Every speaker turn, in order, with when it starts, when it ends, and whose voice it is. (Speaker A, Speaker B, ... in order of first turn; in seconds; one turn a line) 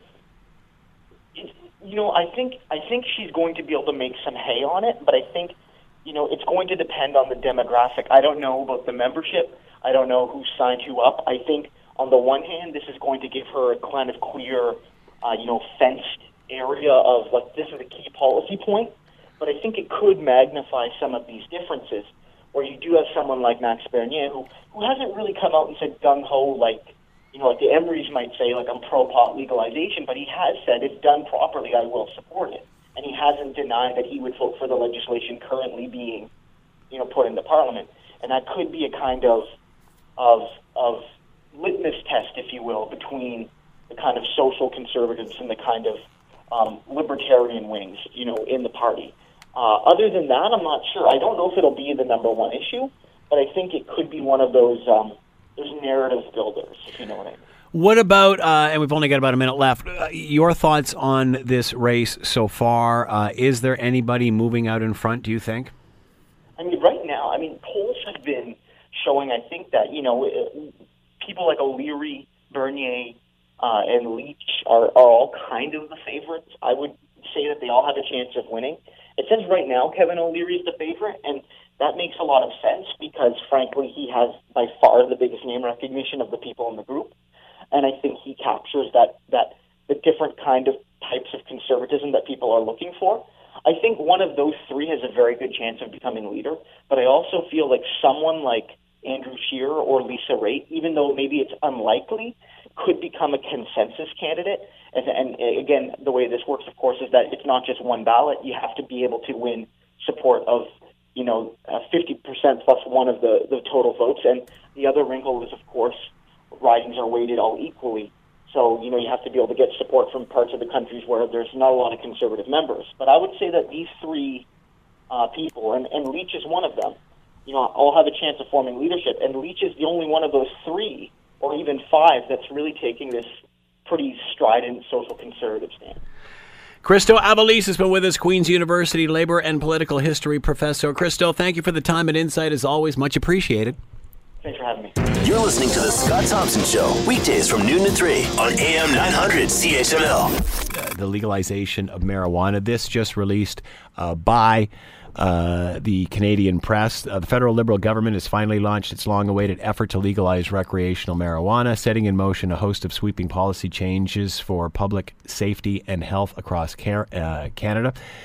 Speaker A: 1.4-36.3
Speaker A: 36.9-39.5
Speaker A: 40.2-57.4
Speaker B: 57.7-65.7
Speaker A: 66.6-87.1
Speaker A: 87.7-124.5
Speaker A: 125.1-133.3
Speaker A: 133.9-136.0
Speaker B: 136.8-143.8
Speaker A: 144.4-144.9
Speaker C: 145.2-150.4
Speaker B: 150.7-168.0